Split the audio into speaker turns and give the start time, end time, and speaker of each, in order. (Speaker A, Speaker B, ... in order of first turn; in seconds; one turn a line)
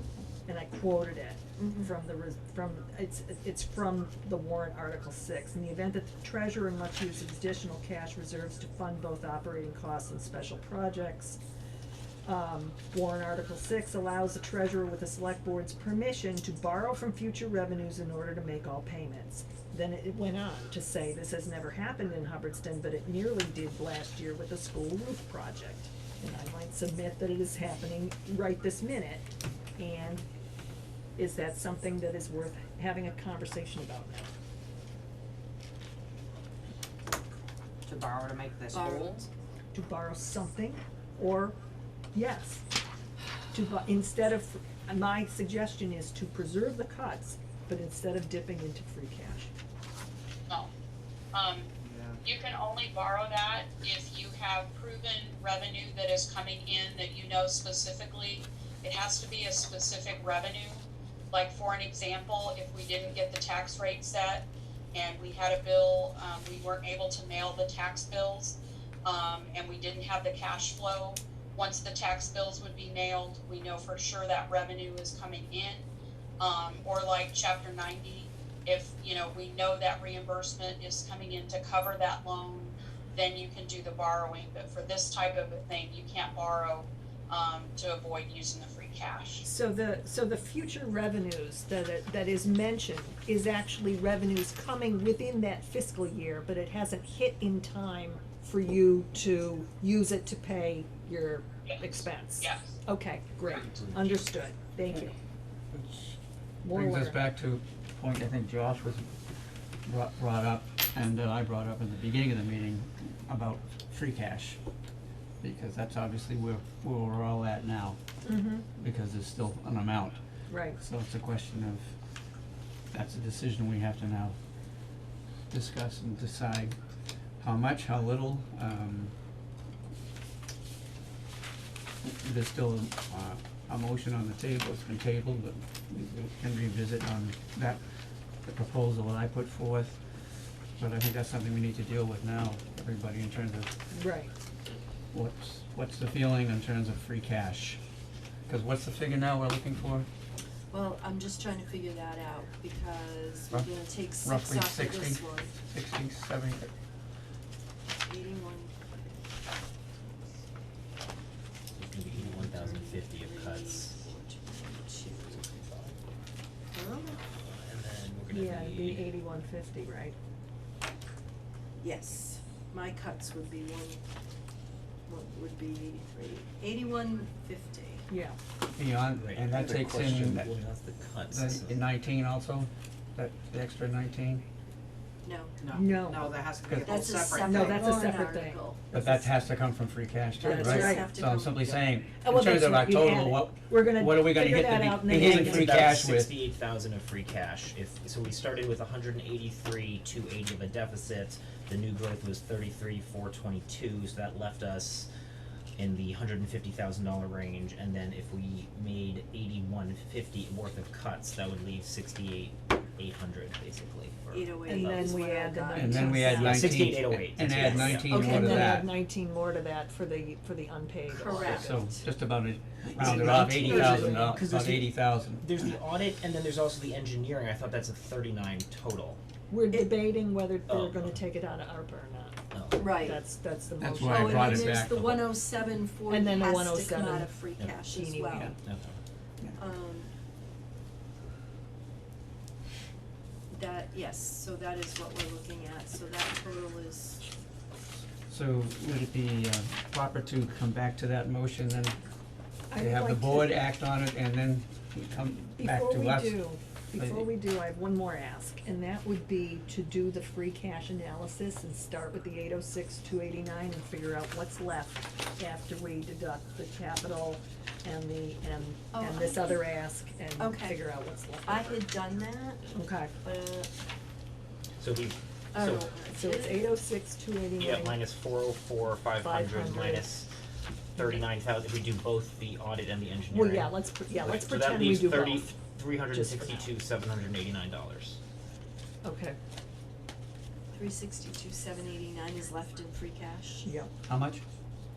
Speaker A: 0.5-11.4
Speaker B: 1.6-1.9
Speaker A: 12.2-29.3
Speaker A: 29.8-30.3
Speaker A: 31.2-34.3
Speaker C: 37.9-39.2
Speaker D: 38.7-39.2
Speaker A: 39.7-41.6
Speaker A: 42.1-42.7
Speaker A: 43.5-49.5
Speaker D: 51.3-51.7
Speaker D: 52.2-75.8
Speaker D: 76.4-89.5
Speaker A: 89.4-105.2
Speaker D: 102.4-102.7
Speaker E: 105.7-106.2
Speaker A: 106.6-107.2
Speaker E: 106.7-109.1
Speaker E: 109.8-114.6
Speaker E: 115.4-118.0
Speaker A: 118.2-118.7
Speaker E: 118.8-120.2
Speaker A: 120.5-120.8
Speaker E: 120.8-121.9
Speaker E: 122.9-124.4
Speaker E: 125.5-126.8
Speaker E: 127.4-129.1
Speaker E: 132.0-137.8
Speaker E: 138.4-140.0
Speaker E: 140.8-143.7
Speaker A: 143.9-144.3
Speaker E: 145.1-147.8
Speaker E: 148.5-150.1
Speaker B: 150.7-155.5
Speaker E: 153.5-156.7
Speaker B: 158.0-158.8
Speaker F: 161.7-164.0
Speaker B: 162.3-165.5
Speaker F: 165.5-165.9
Speaker B: 166.7-167.2
Speaker F: 167.2-169.1
Speaker A: 168.3-170.2
Speaker B: 171.8-174.0
Speaker B: 175.1-178.1
Speaker A: 178.1-178.4
Speaker E: 178.8-180.5
Speaker F: 179.2-181.8
Speaker E: 181.3-184.4
Speaker B: 185.2-185.6
Speaker C: 185.6-187.9
Speaker A: 185.7-186.3
Speaker E: 186.6-187.0
Speaker B: 186.8-188.8
Speaker A: 187.4-189.3
Speaker E: 188.9-196.3
Speaker B: 190.4-191.8
Speaker A: 190.4-191.2
Speaker A: 192.2-195.9
Speaker F: 195.0-205.1
Speaker F: 205.8-215.1
Speaker B: 214.3-216.6
Speaker A: 214.7-216.8
Speaker E: 215.7-218.9
Speaker F: 216.3-218.5
Speaker B: 217.6-218.0
Speaker A: 218.1-221.8
Speaker B: 221.1-222.1
Speaker E: 221.5-225.5
Speaker F: 222.8-229.2
Speaker A: 223.4-224.3
Speaker A: 229.5-234.9
Speaker F: 230.7-231.2
Speaker F: 232.5-232.8
Speaker B: 232.8-233.2
Speaker E: 233.8-235.0
Speaker B: 234.0-238.6
Speaker F: 234.9-235.3
Speaker A: 236.1-237.4
Speaker A: 237.9-238.6
Speaker F: 238.6-239.0
Speaker B: 239.6-240.1
Speaker B: 243.5-247.2
Speaker E: 248.3-252.0
Speaker A: 252.7-253.6
Speaker E: 252.8-256.4
Speaker A: 255.6-271.9
Speaker E: 257.0-257.3
Speaker B: 268.9-269.7
Speaker B: 270.4-270.8
Speaker B: 271.4-273.7
Speaker A: 272.7-273.1
Speaker F: 274.8-275.9
Speaker B: 275.5-276.7
Speaker A: 276.1-278.0
Speaker F: 277.6-280.3
Speaker A: 279.2-280.1
Speaker F: 281.0-288.2
Speaker A: 281.0-281.2
Speaker A: 283.3-285.6
Speaker A: 286.1-286.7
Speaker A: 289.0-289.4
Speaker B: 290.7-293.6
Speaker A: 293.6-293.9
Speaker E: 294.1-294.4